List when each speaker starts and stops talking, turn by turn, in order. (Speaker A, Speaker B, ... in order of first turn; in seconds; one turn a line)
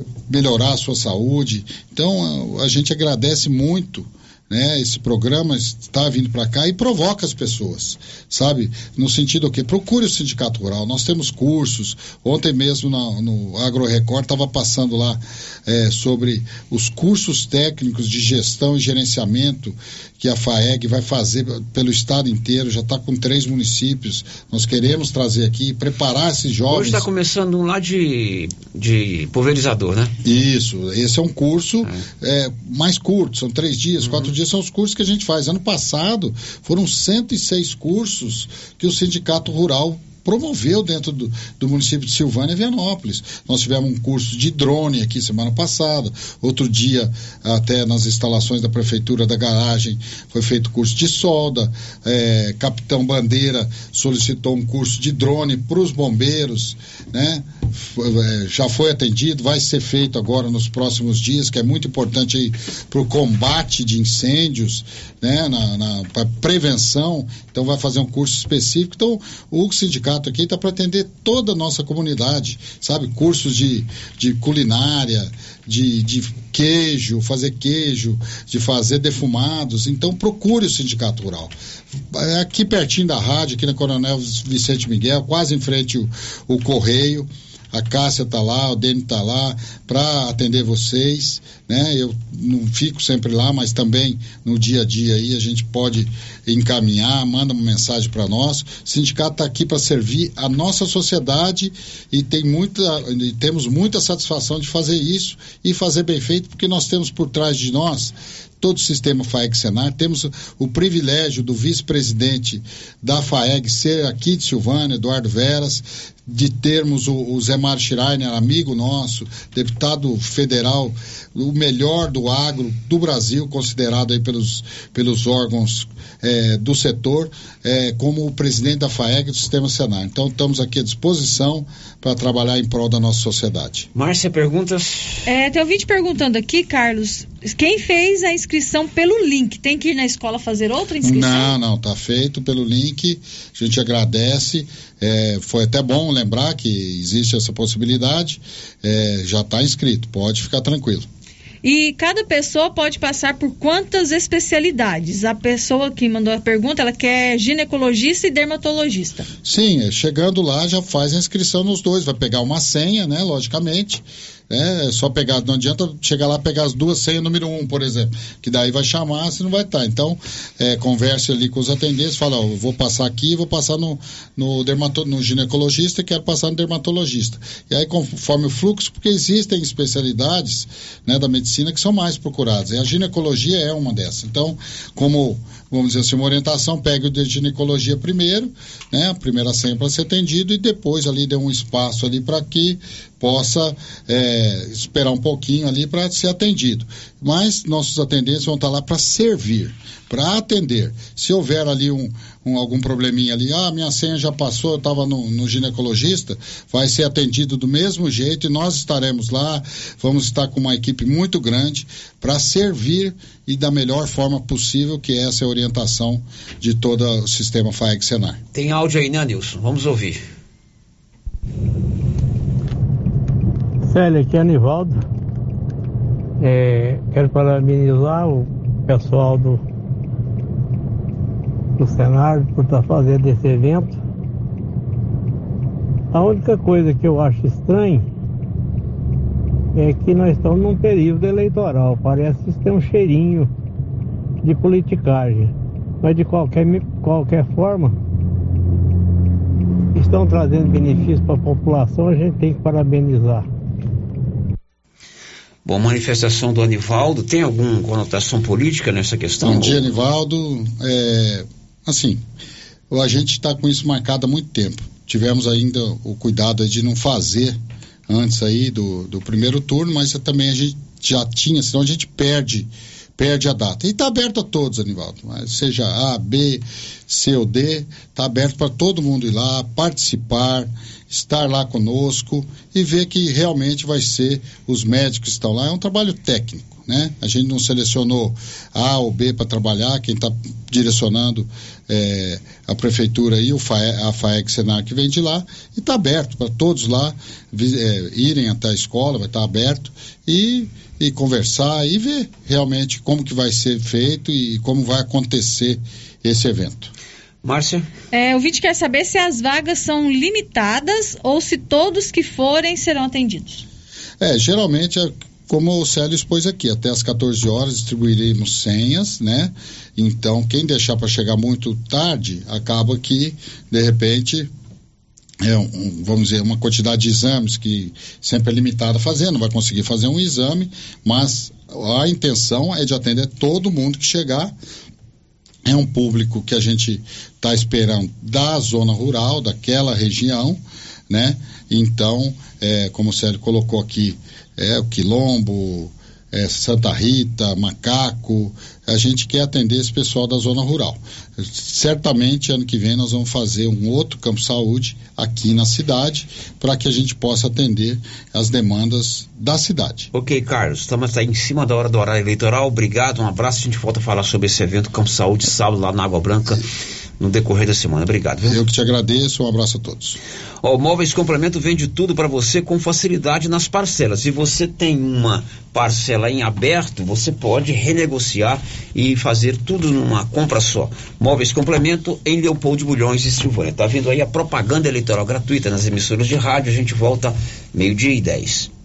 Speaker A: 0.3-27.1
Speaker B: 26.7-30.1
Speaker A: 30.2-81.5
Speaker B: 34.0-34.3
Speaker A: 82.1-133.9
Speaker B: 133.9-135.2
Speaker C: 135.3-141.5
Speaker A: 141.0-151.1
Speaker C: 151.6-159.3
Speaker A: 159.4-218.4
Speaker B: 218.5-220.2
Speaker D: 223.8-225.0
Speaker D: 226.4-229.6
Speaker D: 231.8-234.0
Speaker D: 236.1-238.1
Speaker D: 239.7-243.5
Speaker D: 244.4-248.0
Speaker D: 249.9-253.5
Speaker B: 255.7-259.9
Speaker A: 259.4-262.2
Speaker A: 262.9-306.9
Speaker B: 307.4-307.9
Speaker C: 308.1-313.6
Speaker A: 314.2-324.5
Speaker A: 325.4-334.6
Speaker A: 335.7-360.1
Speaker B: 360.1-366.6
Speaker B: 367.2-368.6
Speaker A: 368.5-370.2
Speaker B: 370.6-388.7